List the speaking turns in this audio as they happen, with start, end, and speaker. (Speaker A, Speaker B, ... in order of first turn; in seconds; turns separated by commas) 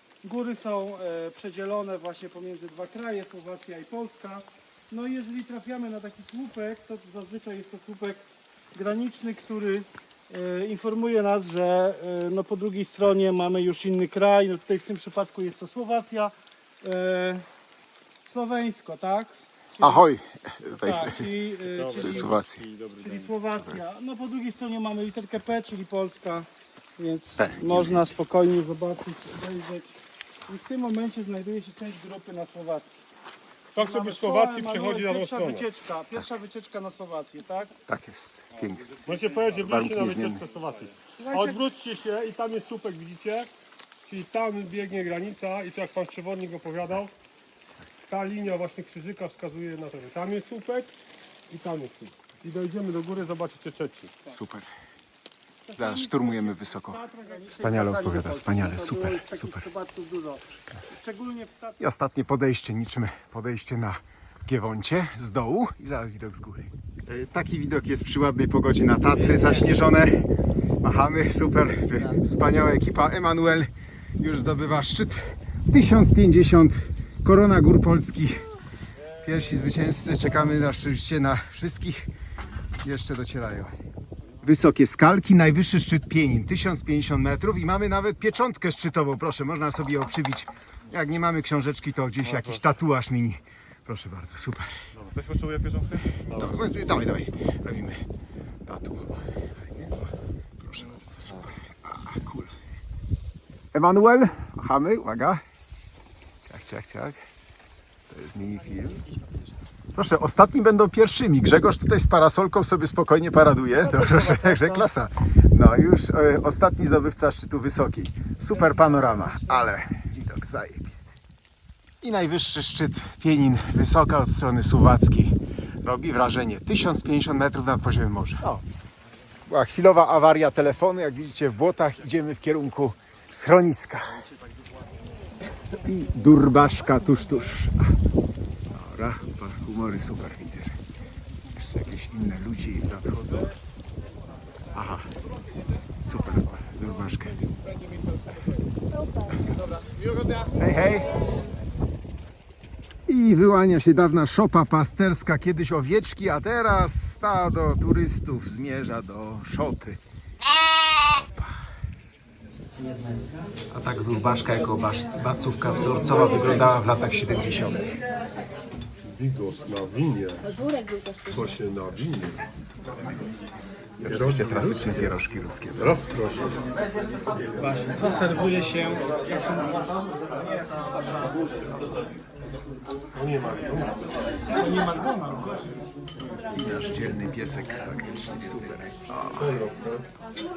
Speaker A: 0.2-17.4, Speaker A: 18.2-20.1, Speaker B: 19.8-21.3, Speaker A: 20.8-22.2, Speaker C: 21.7-23.4, Speaker B: 21.9-22.6, Speaker A: 23.0-26.5, Speaker A: 27.0-29.9, Speaker B: 27.4-28.1, Speaker A: 30.4-33.0, Speaker C: 33.7-35.7, Speaker A: 33.8-37.7, Speaker B: 37.9-39.0, Speaker C: 39.0-43.5, Speaker B: 39.6-40.4, Speaker A: 41.2-41.5, Speaker C: 44.0-47.1, Speaker C: 48.1-50.9, Speaker C: 51.5-54.2, Speaker B: 54.3-54.7, Speaker A: 55.7-61.8, Speaker B: 55.8-59.7, Speaker B: 61.8-70.3, Speaker B: 70.8-78.5, Speaker B: 79.2-82.1, Speaker B: 82.8-83.7, Speaker B: 84.4-94.7, Speaker C: 92.3-92.7, Speaker C: 95.0-96.6, Speaker B: 96.3-98.0, Speaker B: 98.7-102.5, Speaker B: 103.7-105.4, Speaker B: 106.5-107.2, Speaker B: 108.1-109.0, Speaker B: 109.9-121.2, Speaker B: 122.0-128.6, Speaker B: 129.5-134.2, Speaker B: 135.8-137.9, Speaker B: 138.7-140.7, Speaker B: 141.5-143.5, Speaker B: 144.7-145.1, Speaker B: 146.0-147.6, Speaker B: 150.4-151.2, Speaker B: 153.1-160.0, Speaker B: 163.7-167.9, Speaker C: 169.2-170.5, Speaker C: 171.4-172.4, Speaker B: 174.0-176.0, Speaker C: 175.9-176.4, Speaker A: 177.7-179.4, Speaker C: 183.2-183.9, Speaker A: 184.5-185.5, Speaker B: 186.6-189.6, Speaker C: 189.5-189.8